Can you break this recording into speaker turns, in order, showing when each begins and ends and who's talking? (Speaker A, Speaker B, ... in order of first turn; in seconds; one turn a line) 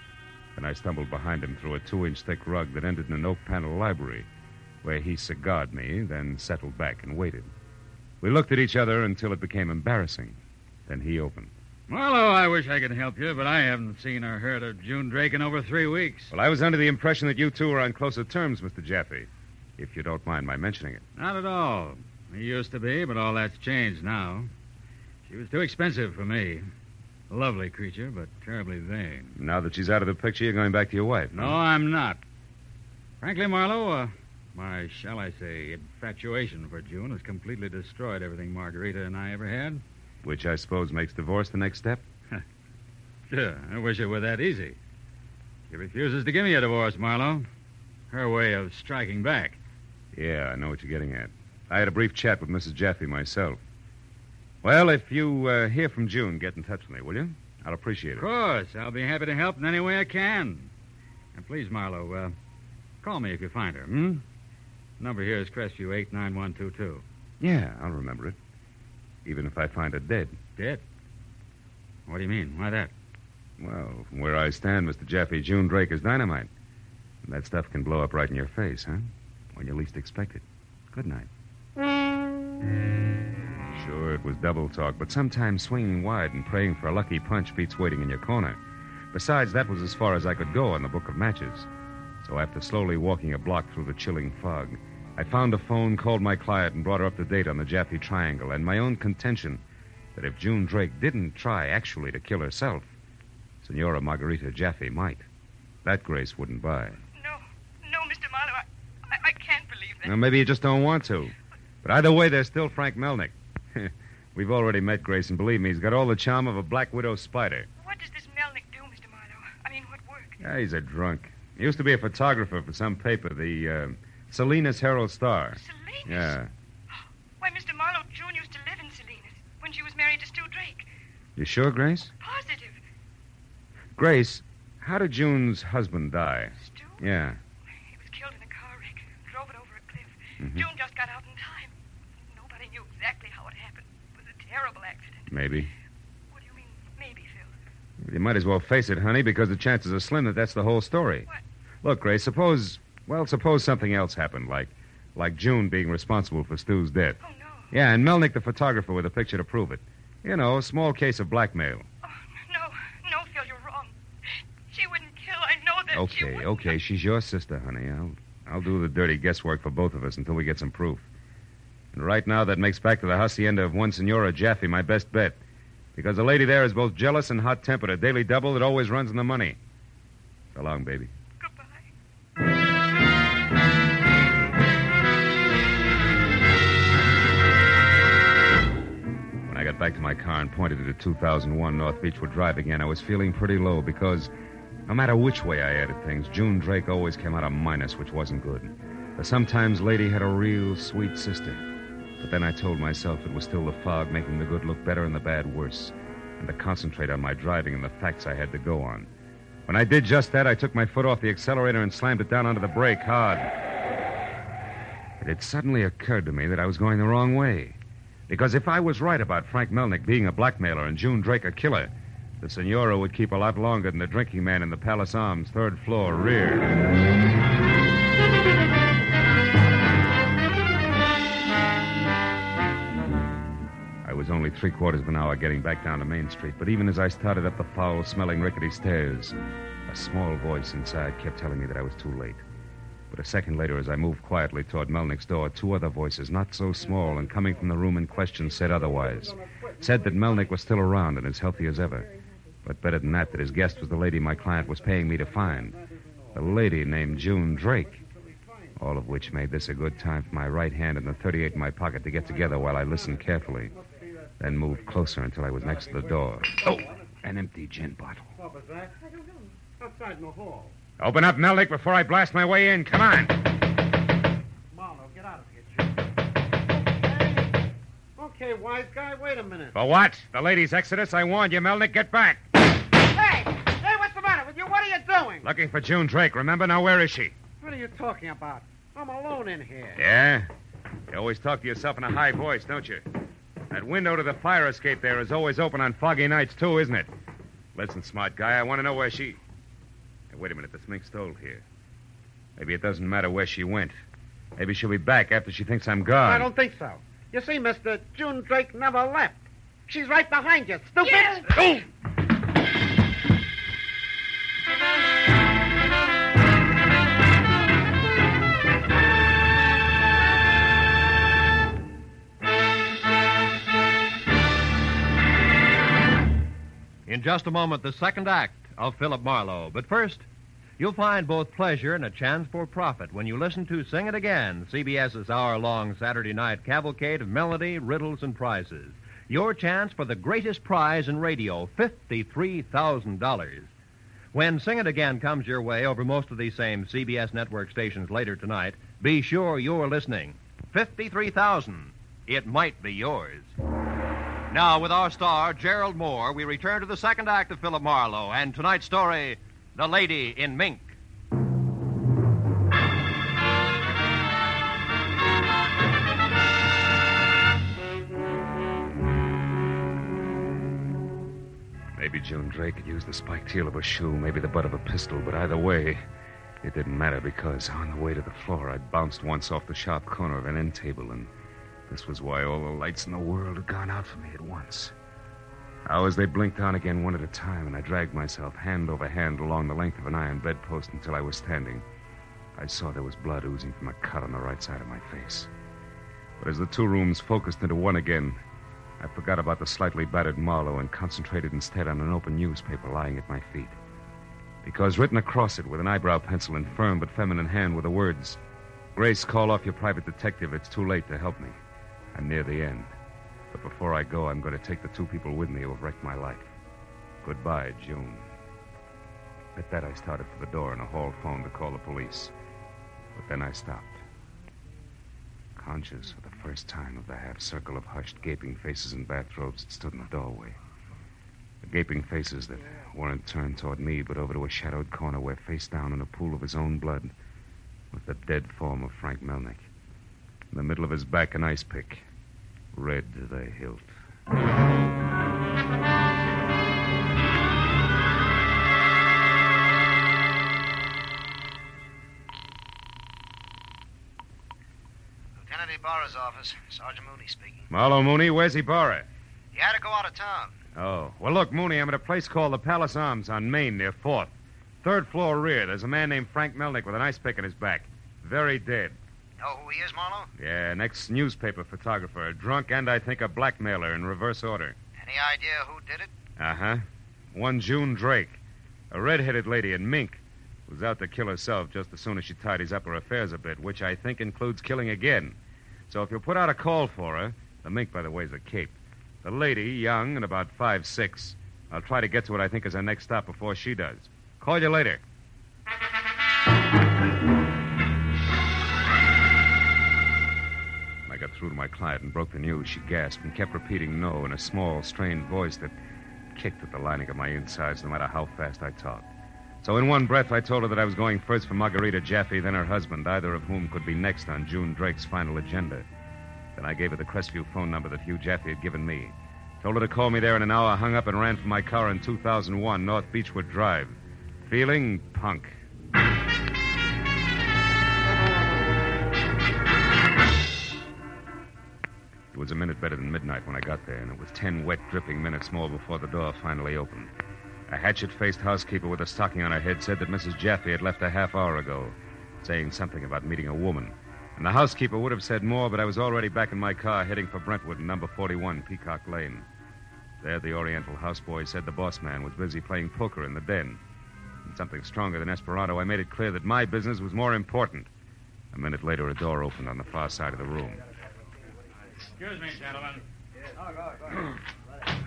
Speaker A: 0.6-4.3
Speaker A: 4.8-7.5
Speaker A: 8.2-11.5
Speaker B: 11.9-16.3
Speaker A: 16.3-21.0
Speaker B: 21.2-24.5
Speaker B: 25.3-26.6
Speaker B: 27.3-29.3
Speaker A: 29.4-31.6
Speaker B: 31.3-32.2
Speaker B: 33.2-39.8
Speaker A: 40.2-42.0
Speaker B: 43.3-44.8
Speaker B: 45.7-47.5
Speaker B: 48.1-49.6
Speaker A: 50.1-53.6
Speaker A: 54.6-58.3
Speaker B: 58.2-60.7
Speaker B: 61.4-62.3
Speaker B: 63.0-64.2
Speaker B: 65.0-67.0
Speaker A: 67.4-68.4
Speaker A: 69.2-70.4
Speaker B: 70.6-70.8
Speaker B: 72.1-72.9
Speaker A: 73.6-76.5
Speaker A: 77.2-81.3
Speaker A: 83.7-88.6
Speaker A: 89.1-91.7
Speaker A: 92.2-99.6
Speaker A: 100.2-102.9
Speaker A: 103.6-105.3
Speaker A: 105.8-107.0
Speaker C: 107.2-110.2
Speaker A: 110.0-117.7
Speaker C: 117.8-120.4
Speaker A: 120.4-126.5
Speaker C: 125.6-126.3
Speaker C: 127.4-130.9
Speaker A: 131.4-132.1
Speaker C: 132.2-132.8
Speaker A: 134.0-137.4
Speaker C: 136.6-137.0
Speaker C: 137.8-141.7
Speaker A: 140.4-140.7
Speaker C: 142.3-145.3
Speaker A: 145.3-145.7
Speaker C: 146.3-147.6
Speaker A: 148.0-151.3
Speaker A: 151.8-157.2
Speaker C: 157.2-157.7
Speaker A: 157.7-161.9
Speaker C: 162.0-163.9
Speaker C: 164.7-166.8
Speaker A: 165.9-171.1
Speaker A: 171.9-175.4
Speaker A: 176.0-179.6
Speaker A: 180.5-181.1
Speaker C: 181.4-181.9
Speaker A: 189.5-194.3
Speaker A: 194.9-201.6
Speaker A: 202.2-209.1
Speaker A: 209.7-213.5
Speaker A: 215.2-217.8
Speaker A: 218.3-226.7
Speaker A: 234.0-239.3
Speaker A: 239.9-242.4
Speaker A: 243.1-252.1
Speaker D: 248.8-250.5
Speaker A: 252.6-255.8
Speaker D: 255.0-256.4
Speaker A: 256.3-258.0
Speaker D: 257.6-258.8
Speaker A: 258.8-263.7
Speaker D: 262.4-264.8
Speaker A: 264.4-268.3
Speaker D: 265.6-267.1
Speaker D: 268.4-270.7
Speaker A: 271.0-273.4
Speaker D: 274.7-276.0
Speaker D: 276.7-277.6
Speaker D: 278.2-279.7
Speaker A: 279.7-282.5
Speaker D: 282.9-285.5
Speaker A: 285.4-287.3
Speaker D: 287.6-290.0
Speaker A: 290.0-290.5
Speaker A: 291.1-293.1
Speaker A: 293.7-297.1
Speaker A: 297.8-299.4
Speaker A: 300.3-301.6
Speaker A: 302.6-304.0
Speaker A: 304.6-306.5
Speaker D: 306.2-311.9
Speaker E: 327.1-330.3
Speaker E: 330.8-343.7
Speaker E: 344.3-353.5
Speaker E: 354.5-360.9
Speaker A: 372.0-376.0
Speaker A: 376.6-381.3
Speaker A: 381.9-384.9
Speaker A: 385.9-391.9
Speaker A: 392.6-395.5
Speaker A: 396.4-398.4
Speaker A: 399.0-403.8
Speaker A: 404.6-408.4
Speaker A: 408.9-411.6
Speaker A: 412.1-412.9
Speaker A: 413.5-416.6
Speaker A: 417.2-418.3
Speaker A: 419.6-422.3
Speaker A: 423.1-424.0
Speaker A: 425.6-430.6
Speaker A: 431.6-437.1
Speaker A: 437.9-439.7
Speaker A: 440.5-442.1
Speaker A: 442.7-443.9
Speaker F: 455.4-457.7
Speaker A: 457.7-459.1
Speaker F: 459.5-460.6
Speaker A: 460.8-469.0
Speaker F: 469.4-470.3
Speaker A: 470.4-474.8
Speaker F: 475.0-476.1
Speaker A: 476.4-485.4
Speaker A: 485.9-495.0
Speaker A: 501.1-505.7
Speaker A: 506.3-509.1
Speaker A: 509.6-515.9
Speaker A: 516.5-525.5
Speaker A: 532.3-537.1
Speaker A: 537.7-549.5
Speaker A: 550.2-553.8
Speaker A: 554.5-557.9
Speaker A: 558.5-560.8
Speaker B: 562.2-563.0